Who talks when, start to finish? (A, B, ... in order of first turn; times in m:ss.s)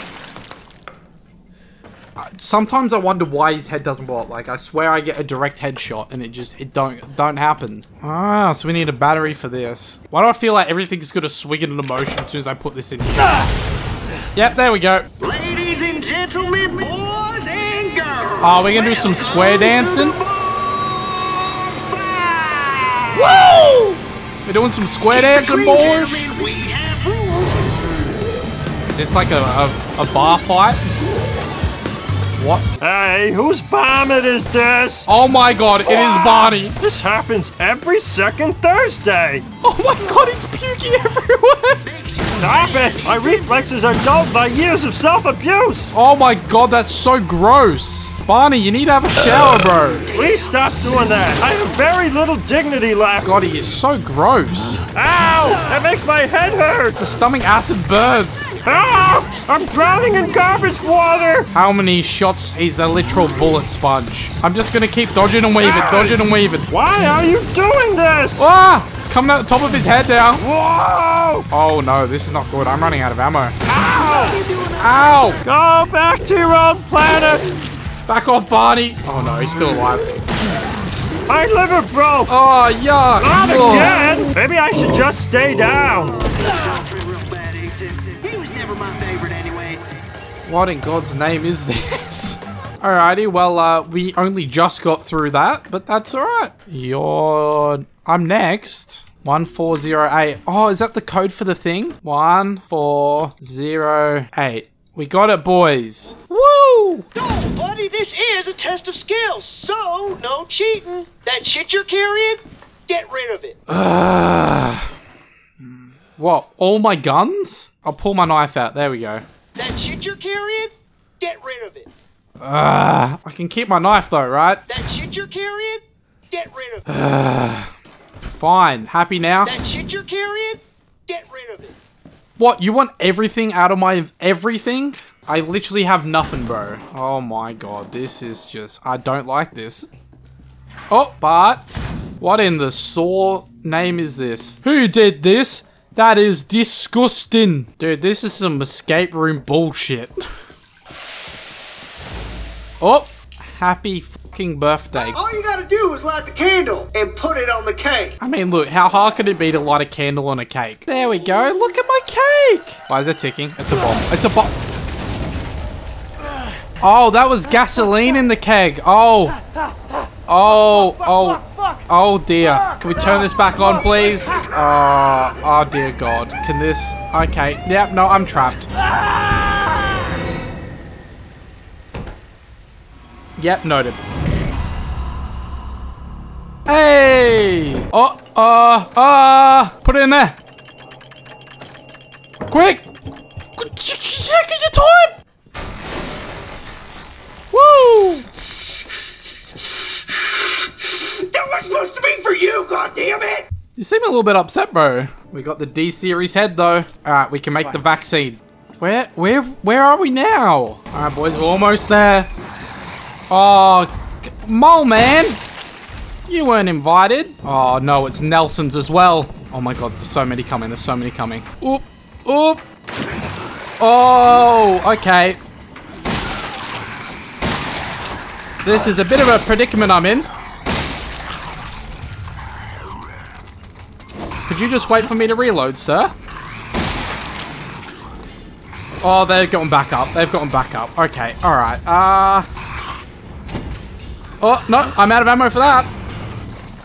0:02.2-0:13.5 A
0:14.3-0:15.1 A
0:15.2-0:23.4 B
0:18.4-0:20.2 A
0:23.1-0:26.3 A
0:25.1-0:28.1 B
0:28.9-0:30.9 A
0:32.4-0:32.7 A
0:32.8-0:35.1 C
0:35.1-0:36.7 A
0:36.8-0:39.4 C
0:39.6-0:41.8 A
0:42.4-0:45.9 C
0:45.9-0:50.1 A
0:50.1-0:53.3 C
0:53.2-0:54.8 A
0:54.9-0:57.0 C
0:57.0-0:58.6 A
0:58.6-1:01.5 C
1:01.5-1:06.7 A
1:05.6-1:08.5 C
1:08.4-1:10.4 A
1:10.4-1:11.5 C
1:11.5-1:13.6 A
1:13.7-1:14.4 C
1:14.3-1:14.8 B
1:14.8-1:15.4 A
1:15.4-1:17.6 C
1:18.1-1:20.2 A
1:21.3-1:22.3 C
1:22.3-1:24.0 A
1:23.2-1:26.3 C
1:26.5-1:29.9 B
1:30.4-1:47.1 A
1:47.2-1:53.6 B
1:53.7-1:54.9 A
1:55.6-1:59.2 A
1:59.6-2:01.9 B
2:02.4-2:04.6 A
2:04.7-2:06.8 B
2:06.9-2:09.5 A
2:09.4-2:11.7 B
2:12.4-2:19.9 A
2:20.9-2:30.2 A
2:32.8-2:35.2 A
2:35.1-2:38.1 B
2:38.2-2:44.5 A
2:46.8-2:49.4 A
2:50.3-2:59.6 A
3:03.4-3:04.0 A
3:06.7-3:10.4 A
3:12.5-3:12.9 A
3:13.6-3:15.1 A
3:17.5-3:18.3 A
3:21.0-3:23.5 B
3:23.8-3:32.3 A
3:33.3-3:35.4 A
3:36.3-3:42.6 A
3:43.8-3:45.4 A
3:48.6-3:50.3 A
3:54.5-3:56.1 A
3:59.0-4:02.5 A
4:04.4-4:05.9 A